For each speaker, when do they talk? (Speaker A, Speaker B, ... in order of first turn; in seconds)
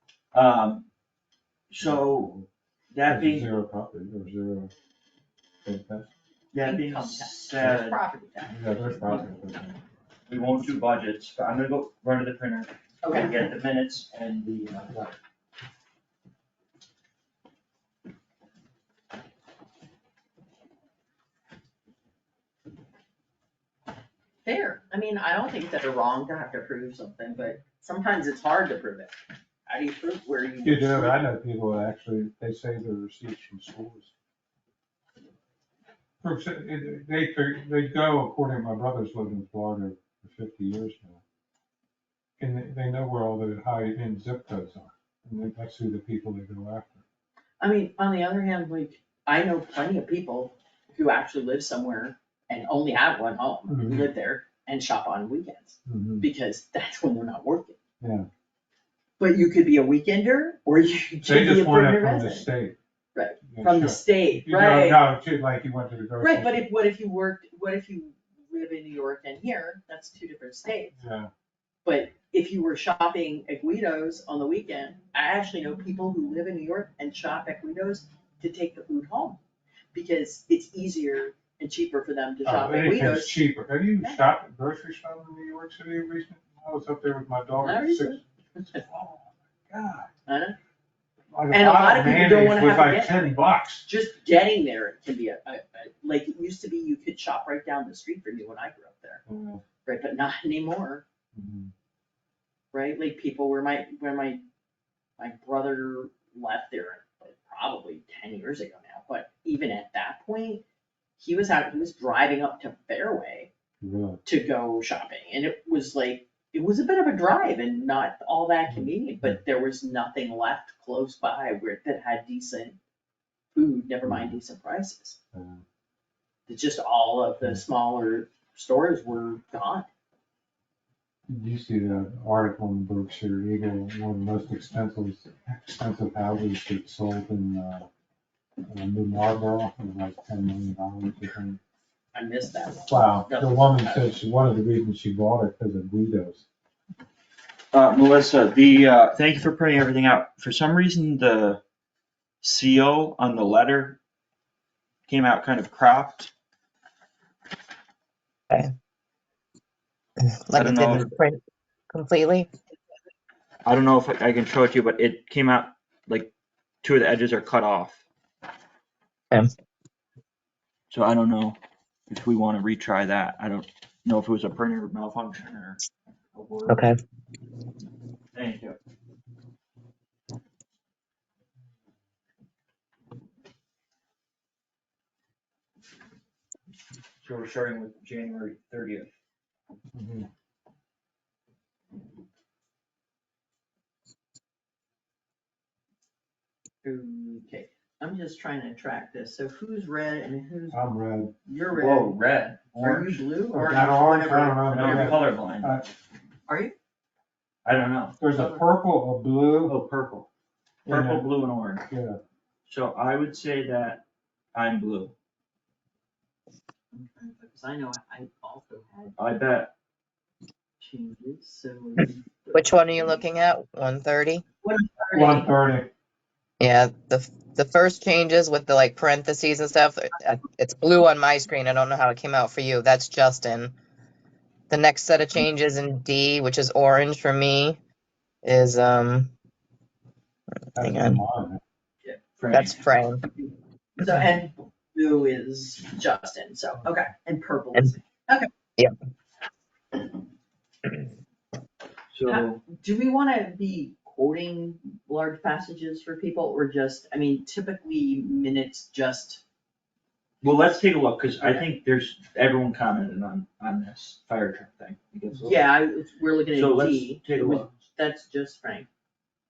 Speaker A: 0.3-0.9, 1.7-2.3, 2.9-3.5, 6.5-8.0, 10.3-15.0, 147.7-151.6, 152.4-154.0, 155.1-156.3, 160.5-161.1, 163.7-166.3, 166.8-168.0, 170.9-171.6, 172.1-175.8, 176.3-176.8, 178.3-178.8, 187.2-189.1, 201.7-203.2, 204.7-205.7, 207.7-208.2, 209.7-210.3, 210.9-211.8, 212.7-214.0, 214.5-215.1, 219.2-219.7, 242.4-242.8, 252.1-252.6, 260.4-265.7, 266.5-267.7
Speaker B: 1.8-2.5, 3.1-4.7, 5.6-6.1, 8.5-9.8, 30.6-34.1, 36.2-41.2, 42.4-47.0, 53.7-54.1, 55.9-56.3, 58.0-58.3, 61.2-62.8, 63.4-66.7, 71.0-71.3, 82.4-88.2, 88.7-90.1, 91.3-93.8, 99.2-99.6, 101.3-101.7, 113.8-114.2, 118.7-119.4, 124.0-124.4, 125.3-125.6, 131.3-137.9, 138.7-141.6, 142.9-146.4, 189.9-190.3, 200.7-201.3, 203.5-205.9, 208.2-209.8, 210.9-211.3, 211.9-212.2, 225.1-225.9, 240.8-241.6
Speaker C: 6.6-9.2, 13.0-13.3, 24.4-29.1, 29.7-31.2, 47.6-57.8, 59.2-62.5, 63.1-65.1, 66.2-70.9, 71.8-79.4, 79.9-84.3, 87.6-88.8, 90.2-90.5, 91.5-93.2, 93.8-99.2, 99.8-101.0, 102.7-104.4, 105.2-110.6, 111.2-113.5, 114.2-122.8, 123.5-125.2, 126.5-129.9, 142.1-144.2, 196.8-200.8, 201.4-202.2, 202.7-205.3, 206.5-206.7, 208.3-208.6, 216.9-219.2, 220.8-223.2, 224.6-225.5, 244.0-248.5, 252.3-259.4, 261.4-261.7, 265.3-268.9
Speaker D: 160.2-162.5, 176.7-177.0, 222.5-224.4, 226.6-233.7, 234.7-237.8, 238.4-239.3, 240.8-241.2, 242.5-243.2